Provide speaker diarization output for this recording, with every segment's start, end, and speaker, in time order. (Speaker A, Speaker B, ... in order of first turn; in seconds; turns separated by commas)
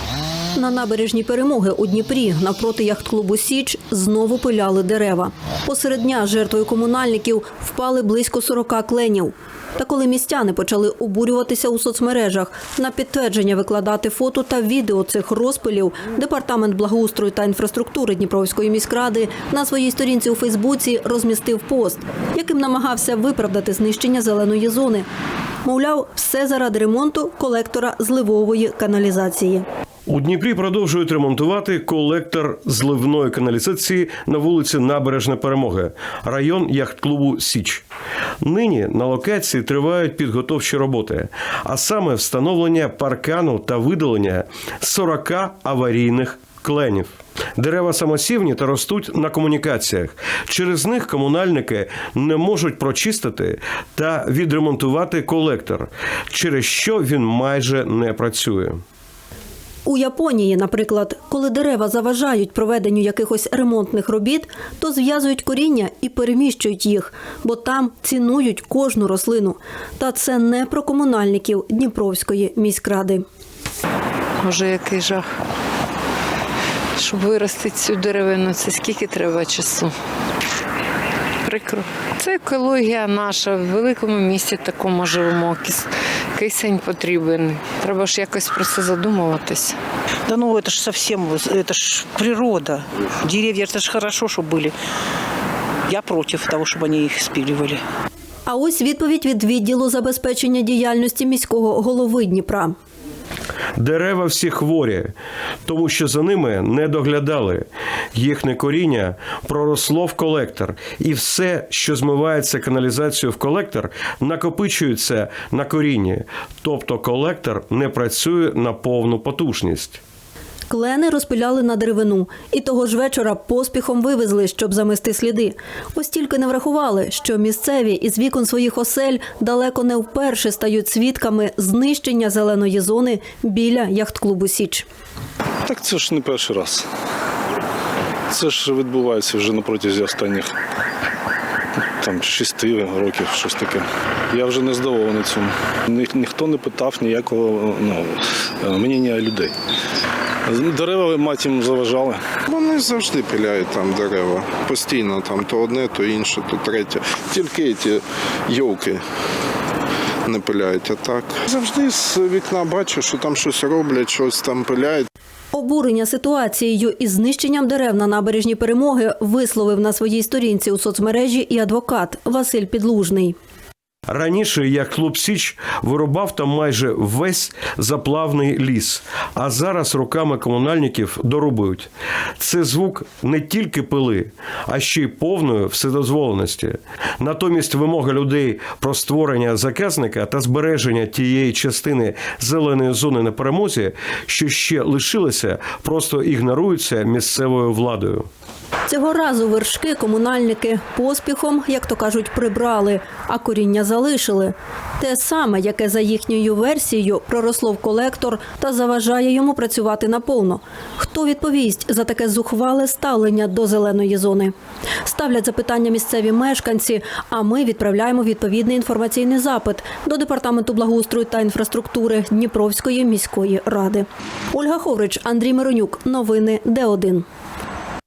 Speaker A: 0.5-25.1, Speaker A: 25.6-29.6, Speaker B: 30.1-37.8, Speaker B: 38.4-58.8, Speaker A: 59.8-73.2, Speaker C: 74.4-75.2, Speaker C: 77.0-79.9, Speaker C: 81.5-89.8, Speaker D: 90.3-94.7, Speaker D: 95.9-97.8, Speaker A: 98.5-102.7, Speaker B: 103.8-105.1, Speaker B: 105.7-120.0, Speaker A: 120.7-134.8, Speaker E: 135.7-136.8, Speaker E: 138.3-140.5, Speaker E: 142.0-149.5, Speaker E: 150.5-152.2, Speaker F: 152.5-159.0, Speaker F: 160.2-165.1, Speaker A: 165.5-173.3, Speaker B: 174.1-198.3, Speaker A: 198.9-214.5, Speaker A: 215.0-227.2